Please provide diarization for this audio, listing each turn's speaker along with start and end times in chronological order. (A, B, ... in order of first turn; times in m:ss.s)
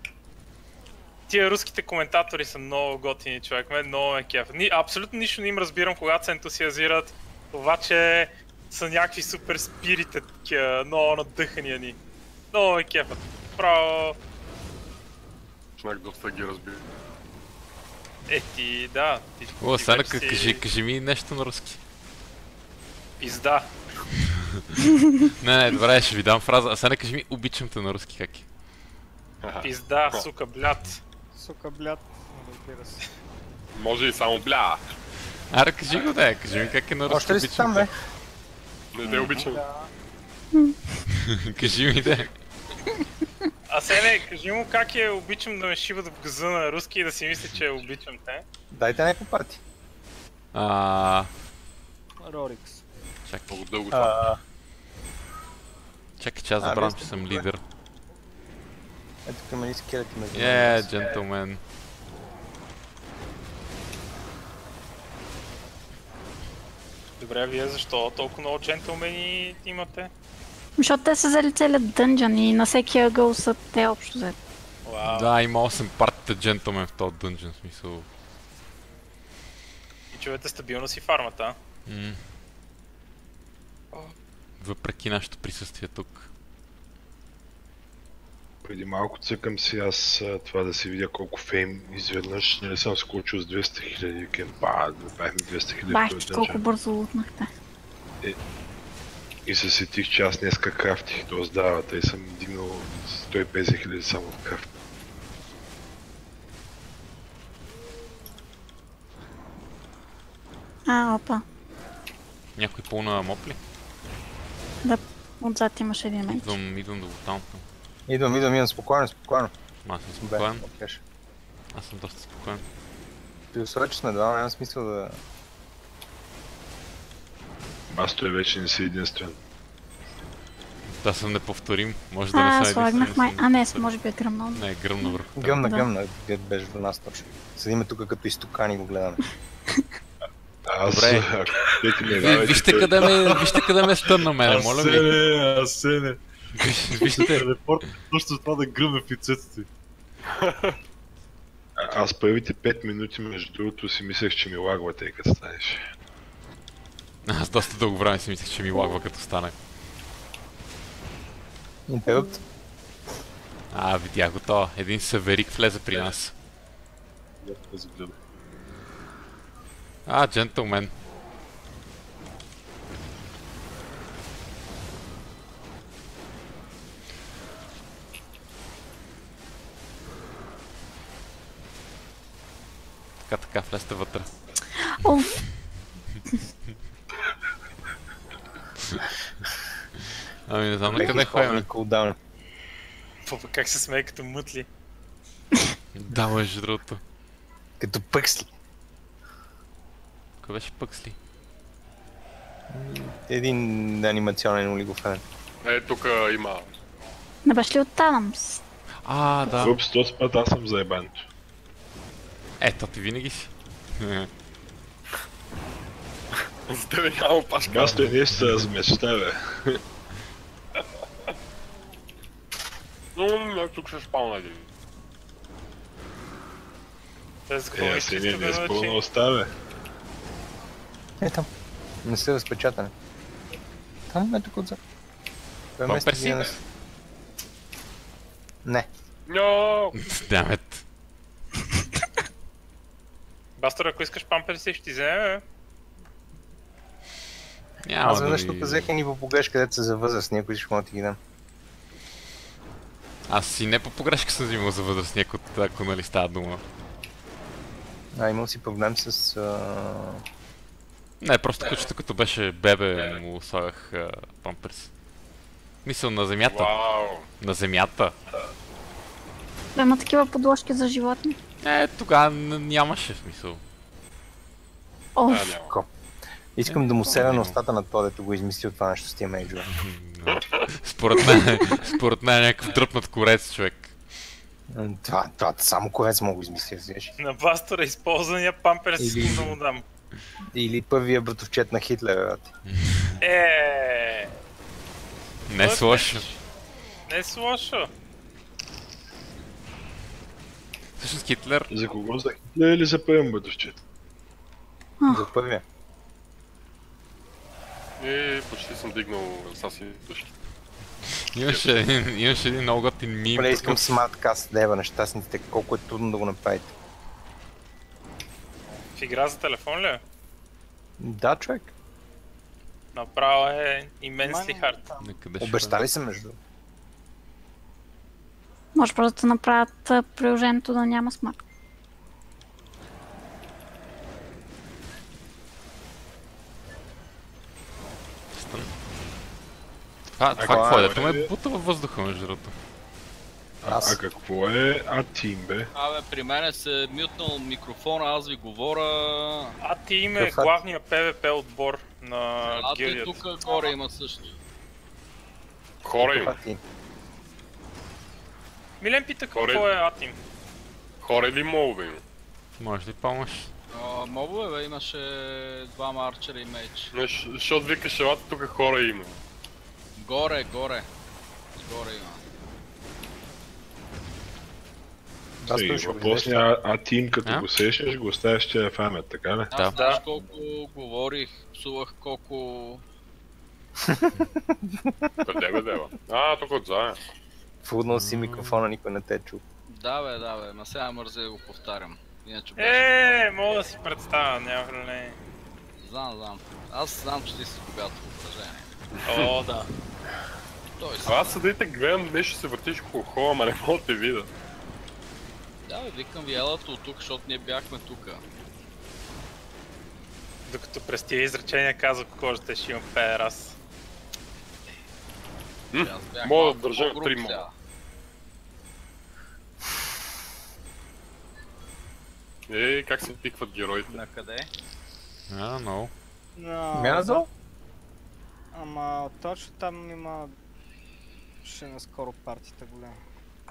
0:01.3-0:12.0 A
0:12.5-0:14.2 A
0:15.8-0:16.9 B
0:18.3-0:20.6 A
0:19.6-0:21.8 C
0:23.2-0:23.7 A
0:25.4-0:28.5 C
0:29.4-0:30.3 B
0:29.6-0:31.0 A
0:31.3-0:33.1 D
0:33.8-0:34.8 B
0:35.5-0:37.9 C
0:37.1-0:37.9 E
0:38.9-0:39.6 B
0:39.2-0:39.9 D
0:41.2-0:42.3 C
0:43.7-0:48.4 A
0:48.7-0:49.6 E
0:50.5-0:51.3 C
0:52.2-0:52.8 D
0:53.3-0:53.6 C
0:53.5-0:54.3 B
0:53.9-0:54.4 E
0:56.2-0:57.6 C
0:56.6-0:57.5 E
0:59.3-1:01.0 E
1:00.3-1:01.6 C
1:07.2-1:10.1 A
1:10.8-1:14.4 F
1:14.8-1:15.3 A
1:15.0-1:18.1 C
1:20.1-1:21.6 A
1:21.9-1:22.2 C
1:24.6-1:26.3 C
1:28.6-1:36.6 G
1:35.9-1:37.5 F
1:39.5-1:44.7 G
1:50.9-1:51.4 F
1:52.6-1:53.6 C
1:54.8-1:56.4 F
1:56.3-1:57.6 C
1:58.1-1:59.5 E
1:59.8-2:00.6 C
2:00.2-2:01.0 E
2:01.7-2:02.6 C
2:03.5-2:05.2 E
2:07.9-2:09.4 G
2:10.9-2:13.9 C
2:12.3-2:15.9 F
2:14.5-2:15.7 C
2:15.4-2:19.2 E
2:20.7-2:23.2 G
2:20.9-2:21.3 C
2:22.1-2:25.2 C
2:23.0-2:23.6 H
2:24.4-2:26.2 H
2:26.6-2:27.5 C
2:26.9-2:29.7 H
2:30.4-2:30.8 B
2:31.8-2:35.8 G
2:37.2-2:39.6 C
2:41.9-2:42.4 E
2:43.7-2:46.3 C
2:47.4-2:48.2 H
2:50.1-2:50.9 C
3:03.2-3:04.4 C
3:05.0-3:05.4 F
3:10.5-3:11.7 C
3:10.9-3:12.2 E
3:13.3-3:14.7 A
3:15.9-3:17.0 C
3:17.8-3:18.5 E
3:20.4-3:21.2 C
3:22.7-3:25.2 E
3:25.6-3:26.7 B
3:27.4-3:28.6 F
3:29.0-3:29.8 C
3:29.6-3:31.3 G
3:32.6-3:34.3 C
3:36.7-3:38.1 B
3:37.6-3:39.8 G
3:43.2-3:44.7 B
3:47.5-3:49.0 A
3:47.8-3:49.5 G
3:51.2-3:51.5 E
3:52.0-3:52.9 E
3:54.1-3:54.8 E
3:55.8-3:56.6 E
3:55.8-3:56.6 C
3:59.3-4:00.0 B
4:00.0-4:00.8 C
4:03.6-4:05.4 A
4:07.8-4:08.9 C
4:08.0-4:11.2 E
4:13.3-4:16.6 C
4:18.2-4:20.2 E
4:21.2-4:24.9 C
4:25.8-4:26.7 C
4:26.5-4:27.3 B
4:27.4-4:28.2 C
4:29.8-4:31.4 F
4:31.6-4:33.6 C
4:35.2-4:35.5 F
4:35.3-4:35.7 B
4:36.6-4:39.7 E
4:36.6-4:37.6 C
4:39.7-4:44.0 C
4:40.3-4:40.6 B
4:44.7-4:47.2 E
4:47.2-4:49.8 A
4:49.0-4:49.6 E
4:50.5-4:52.5 E
4:52.7-4:53.2 C
4:53.2-4:54.3 A
4:55.5-4:56.3 C
4:55.6-4:56.4 A
4:57.1-4:57.9 A
5:01.0-5:01.7 C
5:01.7-5:03.8 G
5:05.0-5:05.3 F
5:05.1-5:05.6 E
5:08.0-5:10.3 B
5:11.3-5:14.0 C
5:11.5-5:11.8 B
5:13.4-5:16.7 E
5:19.0-5:20.0 A
5:21.0-5:21.7 E
5:23.0-5:24.8 A
5:24.2-5:25.1 D
5:25.0-5:25.8 C
5:25.4-5:26.4 E
5:28.8-5:31.4 F
5:38.3-5:38.7 C
5:40.1-5:42.6 C
5:40.4-5:41.3 G
5:40.4-5:40.9 E
5:43.6-5:45.7 G
5:43.6-5:44.0 E
5:45.7-5:49.6 I
5:49.6-5:53.5 A
5:50.2-5:50.6 E
5:52.4-5:54.4 I
5:55.8-5:56.4 B
5:56.0-5:56.6 E
5:58.8-6:00.2 A
5:59.3-5:59.7 B
6:01.0-6:02.0 B
6:02.6-6:03.5 C
6:03.7-6:06.9 I
6:06.9-6:09.2 B
6:10.0-6:10.9 I
6:11.6-6:12.2 I
6:15.4-6:16.5 E
6:15.5-6:19.5 G
6:19.5-6:22.8 I
6:19.5-6:19.8 C
6:19.7-6:20.0 A
6:23.8-6:25.1 E
6:25.2-6:27.0 B
6:27.6-6:29.4 E
6:27.9-6:28.6 C
6:29.7-6:33.6 I
6:32.6-6:35.2 A
6:35.8-6:38.8 I
6:39.0-6:39.3 B
6:39.1-6:39.7 A
6:40.8-6:41.3 I
6:41.0-6:44.3 B
6:45.7-6:48.2 I
6:50.5-6:53.6 A
6:55.7-6:57.5 B
6:55.8-6:57.5 I
7:02.5-7:04.0 B
7:03.9-7:04.5 I
7:05.3-7:05.9 C
7:06.4-7:07.3 D
7:06.8-7:07.3 E
7:08.5-7:10.3 D
7:11.4-7:13.0 D